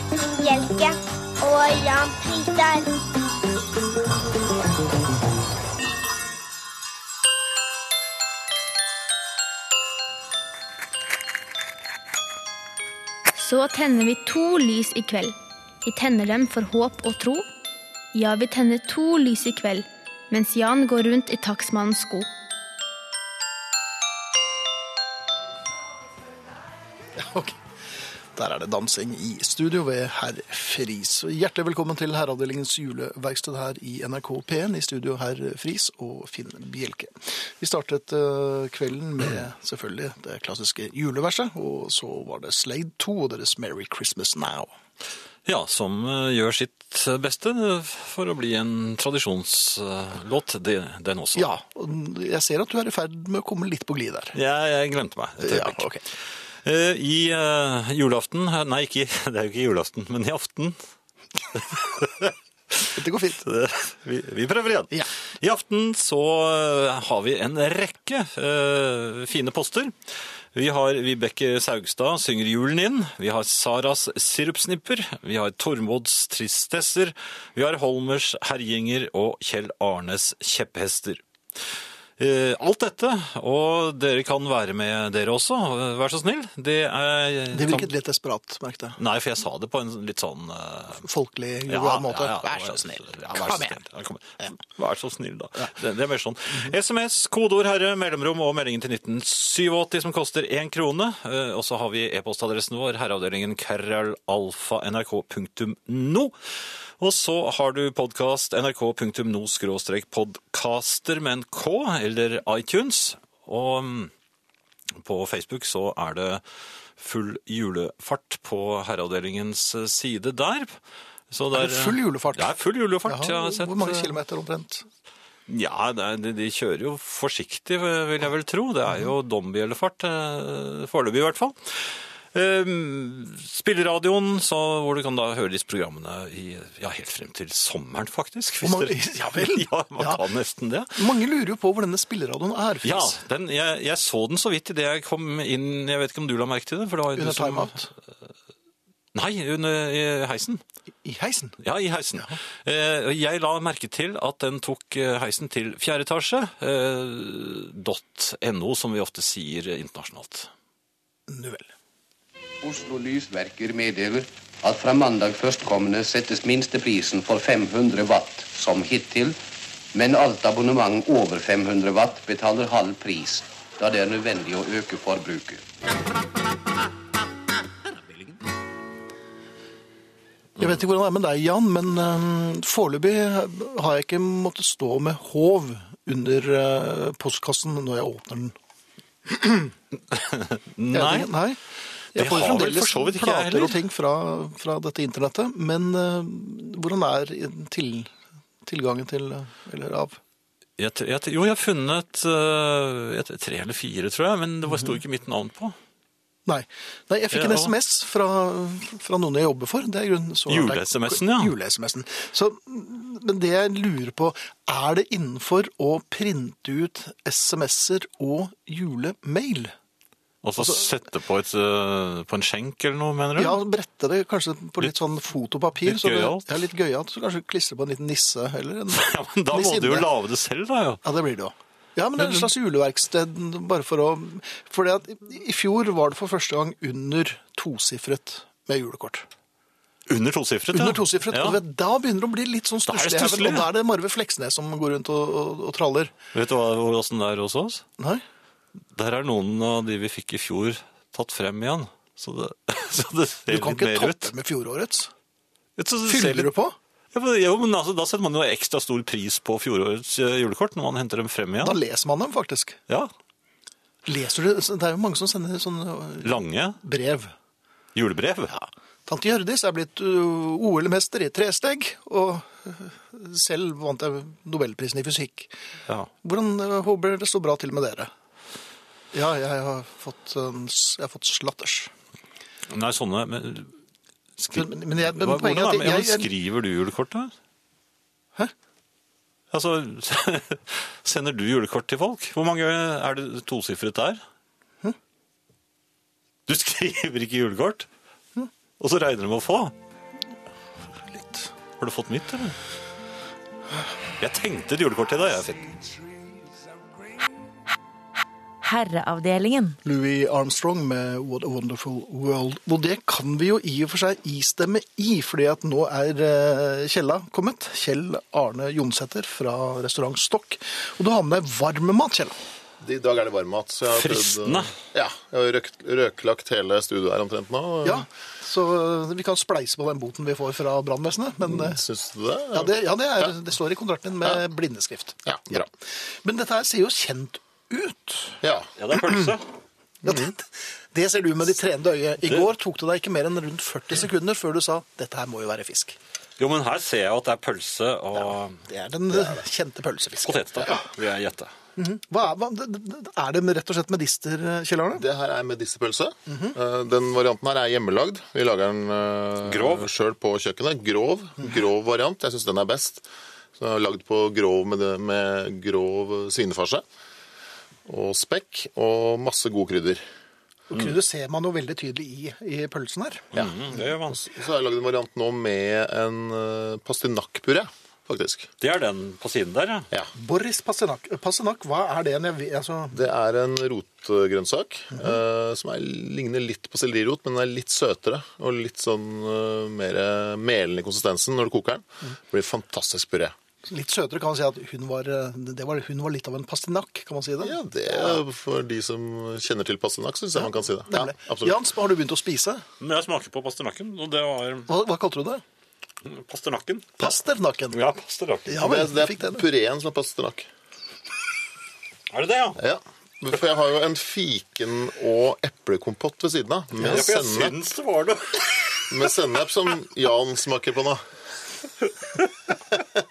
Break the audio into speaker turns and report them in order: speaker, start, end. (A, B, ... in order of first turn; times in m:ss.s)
0:00.2-0:03.0 A
0:13.4-0:17.5 B
0:18.1-0:22.3 B
0:27.1-0:44.7 C
0:45.4-0:51.5 D
0:51.4-0:54.4 C
0:54.3-1:00.8 D
0:55.4-0:56.0 C
1:01.5-1:21.2 D
1:02.9-1:03.4 C
1:22.2-1:27.9 D
1:27.5-1:29.0 C
1:29.0-1:31.0 D
1:31.0-1:33.8 C
1:31.7-1:54.1 D
1:55.0-1:56.4 D
1:57.0-2:00.8 D
2:01.3-2:04.1 D
2:01.5-2:02.5 C
2:03.0-2:04.8 C
2:05.5-2:21.0 D
2:18.6-2:20.2 C
2:20.9-2:23.1 C
2:22.8-2:27.9 D
2:27.2-2:27.9 C
2:29.1-2:30.6 D
2:31.0-2:31.6 C
2:31.6-2:40.5 D
2:41.3-2:41.7 C
2:42.6-2:49.4 E
2:49.9-2:55.6 E
3:00.6-3:08.5 C
3:09.3-3:09.7 C
3:10.1-3:11.3 D
3:10.9-3:11.6 C
3:12.1-3:18.1 C
3:12.1-3:13.8 D
3:18.6-3:20.2 C
3:20.8-3:25.8 D
3:24.7-3:25.0 C
3:26.4-3:39.7 C
3:27.3-3:27.7 D
3:30.5-3:31.5 D
3:40.4-3:43.6 D
3:40.6-3:40.9 C
3:43.4-3:50.1 C
3:45.8-3:46.6 D
3:48.9-3:51.0 D
3:51.0-3:59.3 C
3:52.2-3:52.5 D
4:00.1-4:01.6 D
4:00.7-4:06.1 C
4:02.9-4:03.7 D
4:06.3-4:07.8 D
4:08.0-4:08.2 C
4:08.9-4:14.3 D
4:13.5-4:15.1 C
4:15.8-4:16.5 D
4:16.0-4:16.8 C
4:17.1-4:21.8 D
4:21.6-4:22.8 C
4:24.0-4:27.3 C
4:26.2-4:26.8 D
4:27.9-4:28.5 D
4:28.5-4:35.5 C
4:36.2-4:38.1 C
4:39.1-4:41.9 C
4:42.7-4:43.7 D
4:44.4-4:46.3 C
4:44.5-4:47.3 D
4:49.5-4:54.2 D
4:56.5-4:57.9 D
4:58.8-4:59.7 D
5:01.1-5:01.5 C
5:01.8-5:02.6 D
5:04.2-5:05.6 D
5:08.6-5:09.8 A
5:09.8-5:22.4 C
5:22.8-5:28.1 F
5:23.9-5:24.7 D
5:27.8-5:31.8 C
5:31.5-5:33.3 F
5:32.5-5:38.4 C
5:35.2-5:35.7 F
5:38.4-5:39.3 F
5:38.8-5:39.4 D
5:40.0-5:46.0 C
5:46.4-5:48.6 D
5:48.1-5:50.8 C
5:50.2-5:51.5 D
5:51.8-5:55.0 C
5:54.9-6:03.0 F
5:56.3-5:56.6 C
5:59.5-5:59.9 D
6:03.6-6:06.8 F
6:07.8-6:10.0 F
6:10.7-6:13.3 C
6:13.3-6:14.2 D
6:13.4-6:18.5 F
6:18.6-6:19.9 D
6:20.1-6:23.0 C
6:22.9-6:33.3 F
6:33.6-6:38.2 C
6:37.4-6:41.6 F
6:40.4-6:42.6 C
6:42.8-6:44.7 D
6:44.7-6:45.4 C
6:46.0-6:47.1 D
6:47.0-6:47.8 C
6:47.7-6:48.6 D
6:48.4-6:49.4 C
6:48.6-6:50.5 F
6:52.1-6:52.6 D
6:52.6-6:57.5 F
6:56.8-6:57.0 C
6:56.8-6:59.1 D
6:58.9-7:01.0 F
7:02.0-7:02.5 D